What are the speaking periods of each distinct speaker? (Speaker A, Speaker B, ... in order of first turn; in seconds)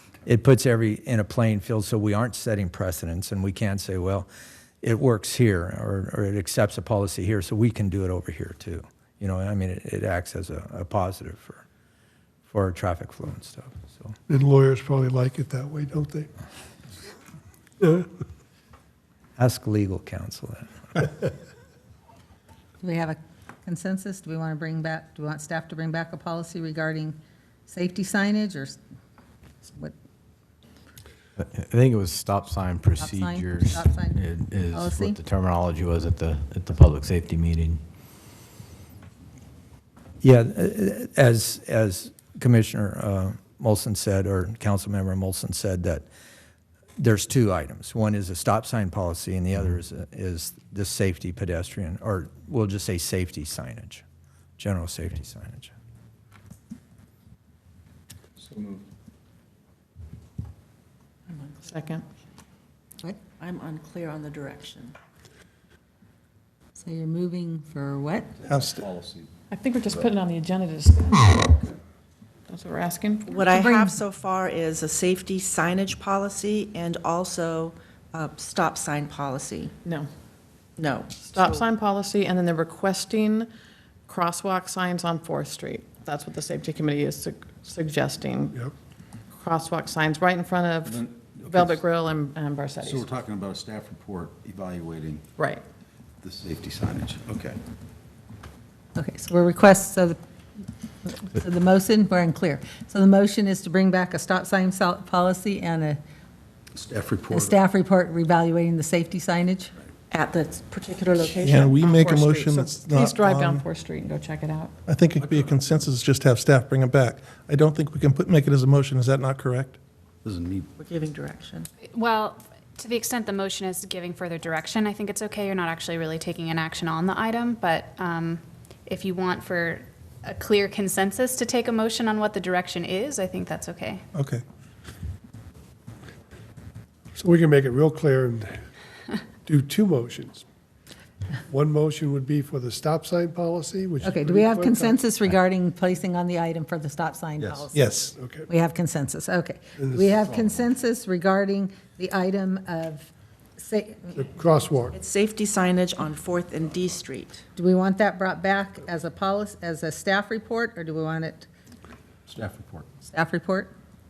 Speaker A: 0.2-4.3, 4.8-11.6, 12.5-14.1, 19.4-21.1, 40.2-46.0, 47.0-54.0, 54.6-55.7
Speaker B: 14.3-16.3, 17.8-18.1, 137.2-138.6, 139.4-140.4, 141.5-145.0, 148.1-148.5, 149.8-150.3, 154.1-155.0
Speaker C: 22.8-27.2, 27.7-28.8, 29.6-29.9, 33.0-35.2, 66.8-68.3, 73.5-74.0, 99.0-100.2, 101.0-106.0, 107.3-109.7, 144.0-147.8, 148.5-154.2, 157.6-161.5, 163.0-163.7
Speaker D: 31.4-37.8
Speaker E: 58.4-58.9, 68.4-69.3, 90.9-91.5, 92.9-95.2, 96.2-97.6, 106.7-107.5, 120.2-120.7, 162.3-162.9
Speaker F: 61.6-62.0, 69.5-71.7, 72.5-73.3, 81.3-83.5, 84.1-88.6, 89.3-93.2, 95.4-95.6, 111.8-114.7
Speaker G: 63.4-64.9, 73.3-79.7, 80.8-81.7, 110.1-111.8, 120.8-121.7, 154.9-157.4
Speaker H: 68.5-68.8, 111.3-113.6, 114.8-119.8, 134.1-134.4, 147.7-148.1
Speaker I: 121.9-134.0